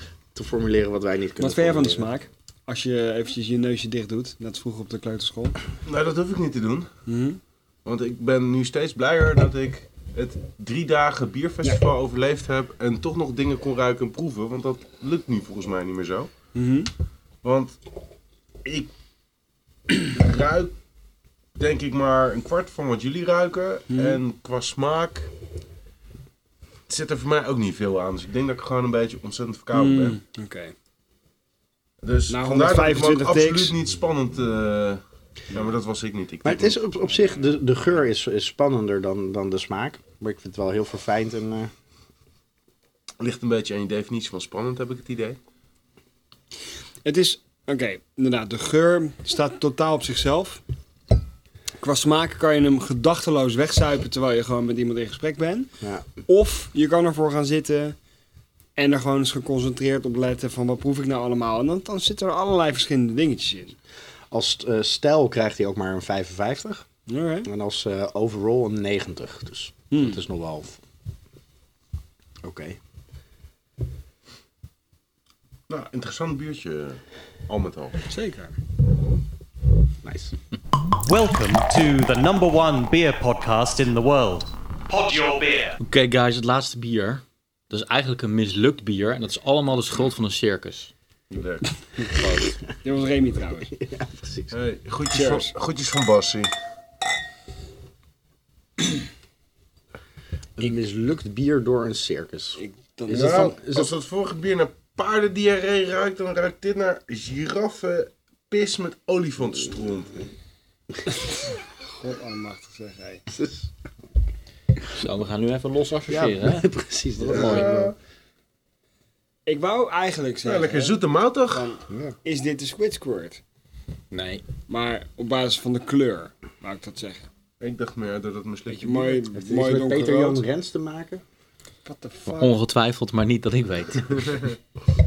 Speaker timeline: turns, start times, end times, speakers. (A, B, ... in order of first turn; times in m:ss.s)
0:00.3-0:02.1 A
0:01.4-0:05.6 B
0:05.9-0:06.9 C
0:07.0-0:07.4 B
0:07.8-0:16.3 C
0:16.6-0:16.9 B
0:17.4-0:17.8 C
0:18.6-0:18.9 C
0:20.0-0:20.7 C
0:21.6-0:25.3 C
0:23.9-0:24.2 B
0:26.9-0:30.2 C
0:29.7-0:30.7 B
0:32.0-0:36.8 C
0:32.3-0:33.7 B
0:36.4-0:41.7 A
0:43.2-0:45.4 C
0:47.0-0:50.6 B
0:51.8-0:55.7 B
0:56.2-0:58.0 B
0:58.8-1:03.8 B
1:04.3-1:06.9 A
1:07.1-1:07.5 B
1:07.4-1:10.8 A
1:09.9-1:10.2 B
1:12.4-1:12.8 A
1:15.7-1:18.0 C
1:18.1-1:18.5 B
1:20.0-1:20.3 A
1:21.0-1:25.8 D
1:25.8-1:30.9 E
1:31.3-1:31.7 C
1:32.1-1:32.6 E
1:32.8-1:33.7 B
1:33.7-1:34.6 A
1:34.5-1:36.5 C
1:35.1-1:35.5 B
1:40.6-1:43.9 A
1:42.6-1:43.5 B
1:43.1-1:50.3 C
1:52.0-1:53.2 B
1:53.3-1:53.7 A
1:54.9-1:57.8 E
1:56.1-1:57.9 A
1:57.3-1:57.9 C
1:59.4-2:03.4 B
2:00.4-2:01.7 C
2:01.9-2:02.1 A
2:04.1-2:04.4 E
2:04.7-2:07.3 B
2:07.6-2:09.2 C
2:08.7-2:10.4 B
2:09.3-2:11.2 A
2:11.8-2:12.6 B
2:12.3-2:14.4 E